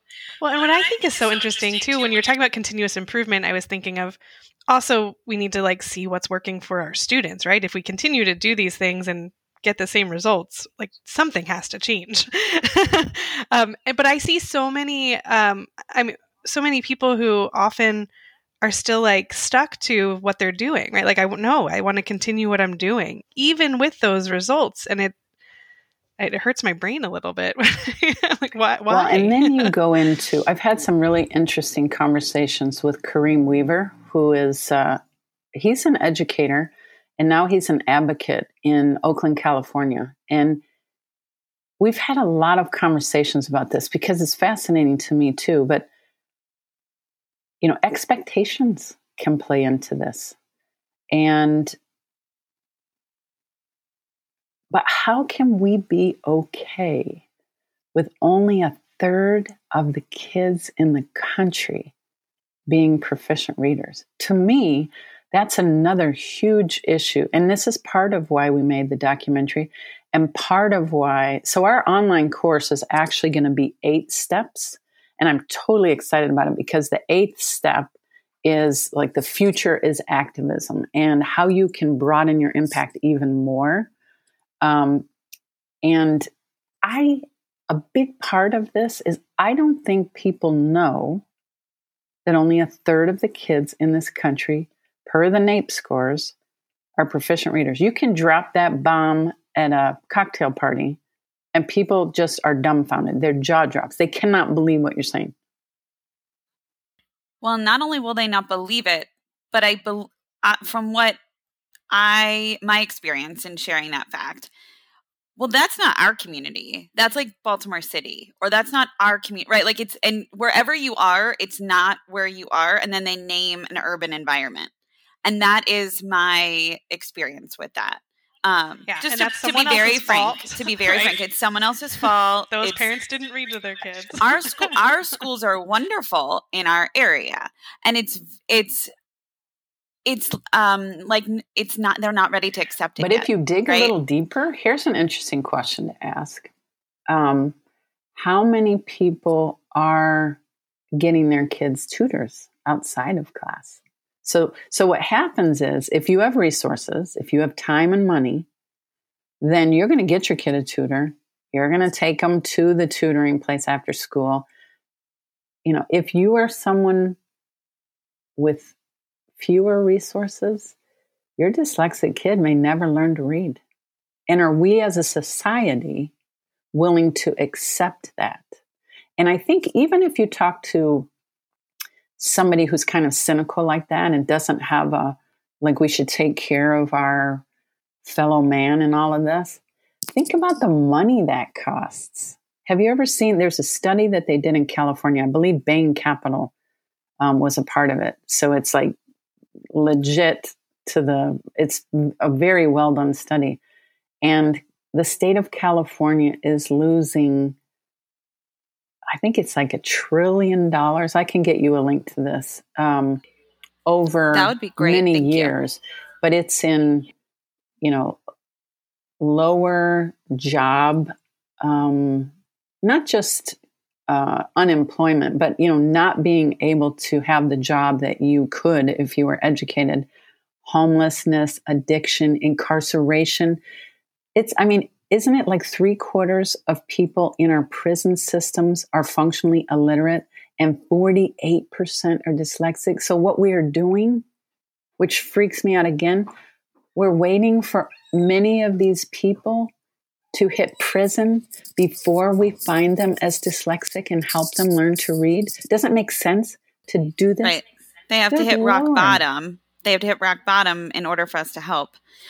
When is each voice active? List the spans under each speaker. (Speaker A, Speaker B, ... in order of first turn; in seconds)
Speaker A: 0.4-18.1, 18.6-25.1, 26.2-29.7, 128.9-131.1, 132.5-134.8
Speaker B: 28.9-35.0, 35.5-40.6, 41.8-45.9, 47.6-50.4, 51.1-51.8, 54.7-57.2, 57.9-61.9, 62.7-77.9, 78.4-83.9, 84.6-85.1, 85.8-86.3, 86.8-91.2, 92.2-96.3, 97.0-101.0, 101.5-105.3, 143.0-146.5, 147.1-147.6, 148.2-150.4, 151.0-158.5, 159.4-164.5, 165.6-167.2, 168.4-168.7, 169.4-170.7, 171.4-173.6, 174.3-176.1, 176.7-178.5, 179.2-181.1, 182.2-187.4, 188.0-189.6, 190.1-196.5, 197.2-198.9, 199.7-203.6, 204.2-207.6, 209.1-213.2, 213.8-217.1, 217.8-218.2, 219.2-222.3, 222.8-230.1, 230.6-233.6, 234.3-244.2, 245.0-246.3, 246.9-249.7, 250.3-257.6, 258.3-259.2
Speaker C: 107.4-111.2, 111.9-114.5, 115.4-124.7, 125.2-132.8, 134.2-138.9, 140.0-143.9, 214.3-215.5, 257.4-262.0